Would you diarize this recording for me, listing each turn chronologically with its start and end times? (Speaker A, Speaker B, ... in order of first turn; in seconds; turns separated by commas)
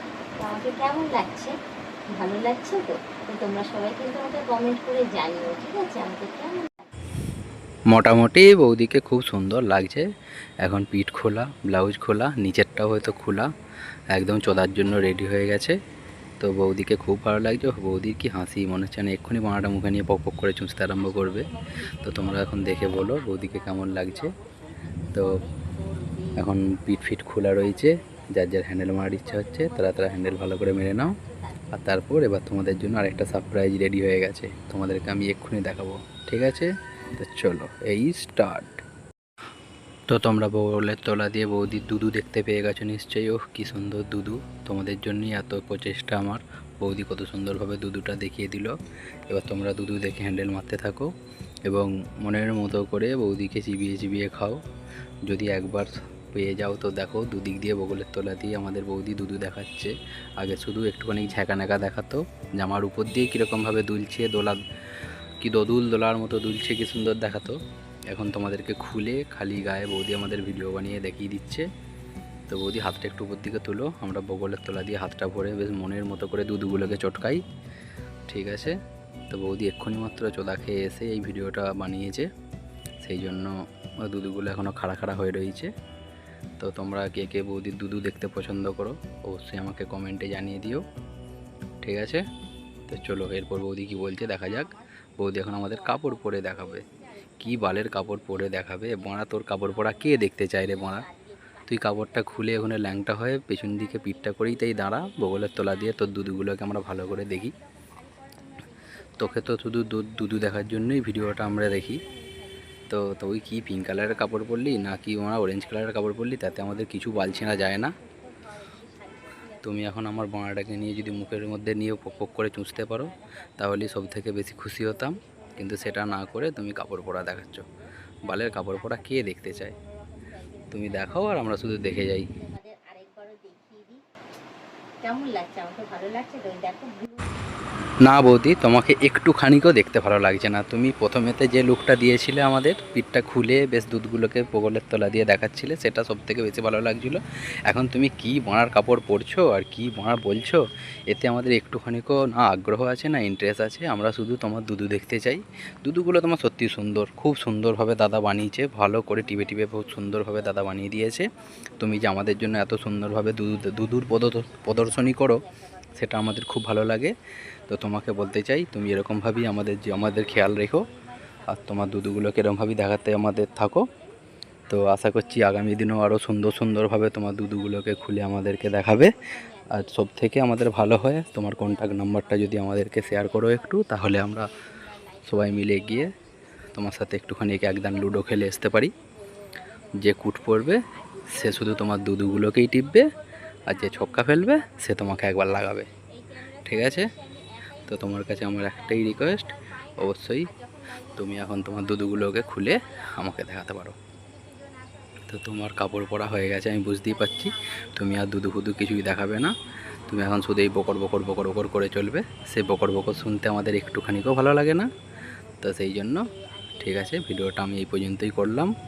Speaker A: 0.4-1.5, Speaker A: 2.1-6.9, Speaker B: 7.9-10.1, Speaker B: 10.6-13.5, Speaker A: 13.1-13.5, Speaker B: 14.1-15.8, Speaker B: 16.4-21.5, Speaker A: 21.0-31.8, Speaker B: 22.0-24.3, Speaker B: 26.4-31.2, Speaker B: 31.7-38.8, Speaker B: 40.1-48.7, Speaker B: 49.3-51.1, Speaker B: 51.7-54.6, Speaker B: 55.3-64.6, Speaker B: 65.4-67.6, Speaker B: 68.1-71.7, Speaker B: 72.5-77.4, Speaker B: 78.3-78.8, Speaker B: 79.3-82.3, Speaker B: 83.0-85.7, Speaker B: 86.6-90.8, Speaker B: 91.8-92.2, Speaker B: 92.9-96.8, Speaker A: 93.9-127.7, Speaker B: 97.4-101.0, Speaker B: 101.7-107.5, Speaker B: 109.2-112.0, Speaker B: 112.9-117.9, Speaker B: 119.6-127.6, Speaker B: 128.2-129.7, Speaker A: 128.2-134.0, Speaker B: 130.7-132.2, Speaker A: 135.0-147.2, Speaker B: 138.0-165.4, Speaker A: 147.7-150.6, Speaker A: 151.2-151.4, Speaker A: 158.8-167.0, Speaker B: 166.0-167.1, Speaker B: 167.7-170.8, Speaker A: 167.7-174.1, Speaker B: 171.5-173.8, Speaker A: 174.7-212.1, Speaker B: 174.7-179.1, Speaker B: 179.8-184.5, Speaker B: 185.3-186.1, Speaker B: 186.7-188.9, Speaker B: 190.0-190.8, Speaker B: 191.3-193.1, Speaker B: 193.7-195.9, Speaker B: 196.6-197.1, Speaker B: 197.9-200.5, Speaker B: 201.2-203.9, Speaker B: 205.3-209.5, Speaker B: 210.1-214.9, Speaker A: 212.6-217.9, Speaker B: 215.6-216.2, Speaker B: 216.8-218.7